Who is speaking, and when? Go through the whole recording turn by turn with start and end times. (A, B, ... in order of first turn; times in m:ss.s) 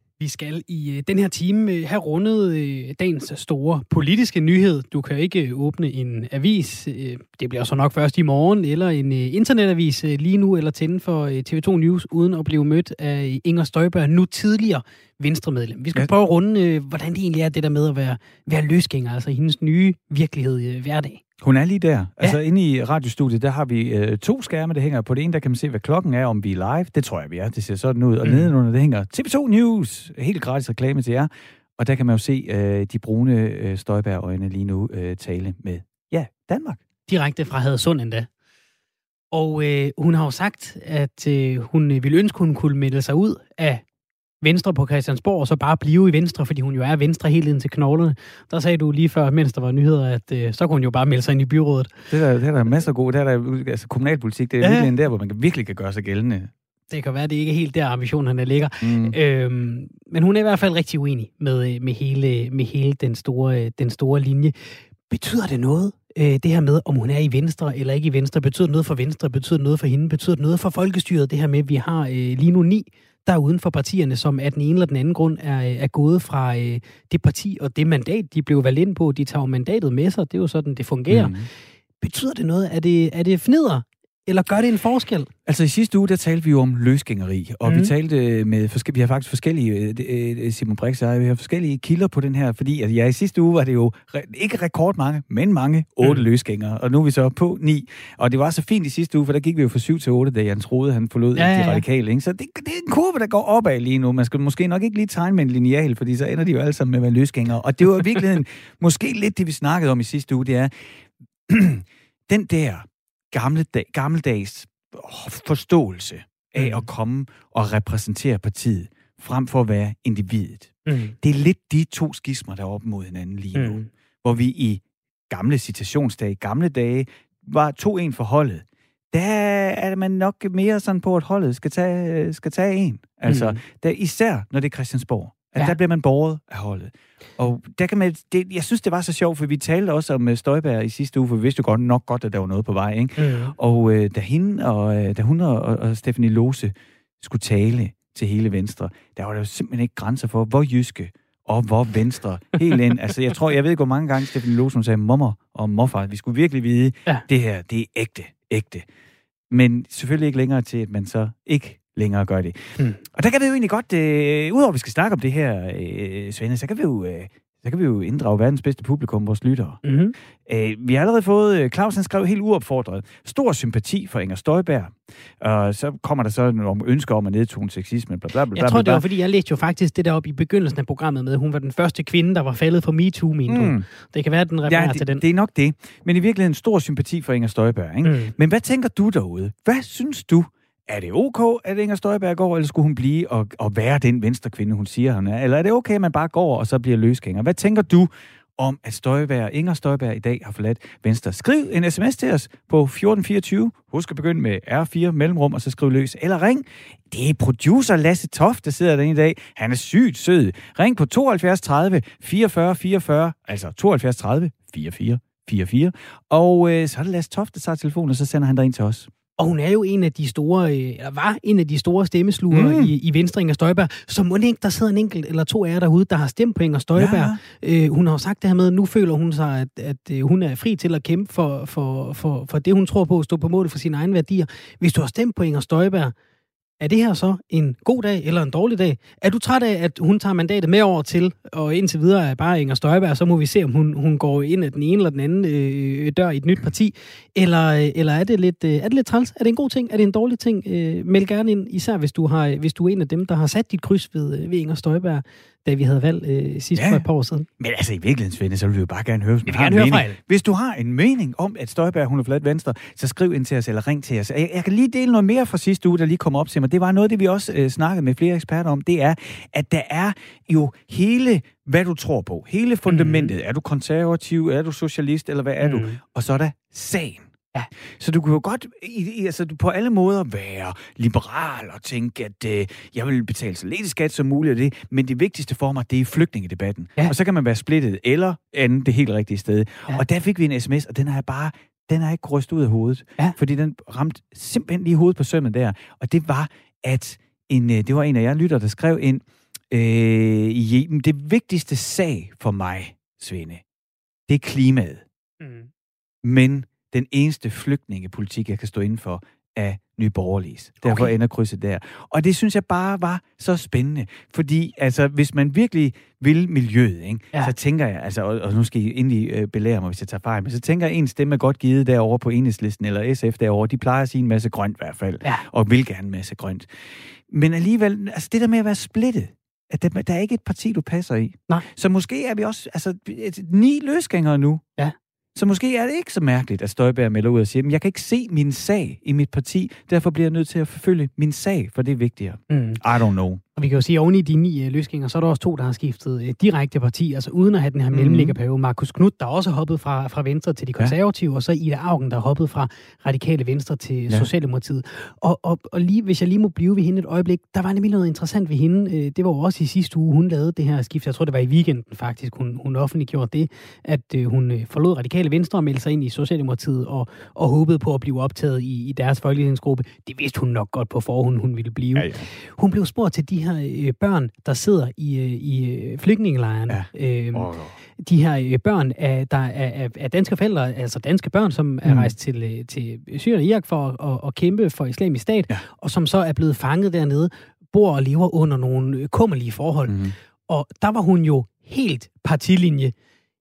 0:00.2-0:21.2 A
0:21.4-0:36.8 B
0:28.2-0:28.5 A
0:37.1-0:38.3 A
0:39.3-0:43.8 A
0:44.4-0:51.9 A
0:52.1-0:56.5 B
0:54.6-0:54.9 A
0:56.9-1:21.3 A
0:58.8-0:59.2 B
1:21.1-1:21.5 B
1:22.0-1:25.3 A
1:25.5-2:38.9 B
1:27.7-1:27.9 A
1:41.4-1:41.8 A
1:56.6-1:56.9 A
2:00.9-2:01.2 A
2:03.6-2:03.9 A
2:13.3-2:13.6 A
2:23.2-2:23.6 A
2:39.5-2:49.8 B
2:49.8-2:50.1 A
2:50.5-2:59.0 B
2:58.6-3:05.2 A
3:03.5-3:03.9 B
3:04.7-3:39.1 B
3:08.0-3:08.3 A
3:39.4-3:56.1 A
3:42.5-3:43.0 B
3:47.0-3:47.4 B
3:56.8-4:17.5 A
4:16.8-4:17.1 B
4:17.6-4:37.3 B
4:19.5-4:20.2 A
4:32.9-4:33.3 A
4:35.6-4:36.0 A
4:38.0-5:03.6 B
5:04.3-5:05.0 B
5:05.4-5:05.7 A
5:06.2-5:34.6 B
5:10.8-5:11.1 A
5:35.4-5:43.4 B
5:42.5-5:42.8 A
5:43.6-6:32.9 A
5:47.9-5:48.4 B
6:12.0-6:12.3 B
6:16.7-6:17.8 B
6:21.8-6:22.1 B
6:29.9-6:30.2 B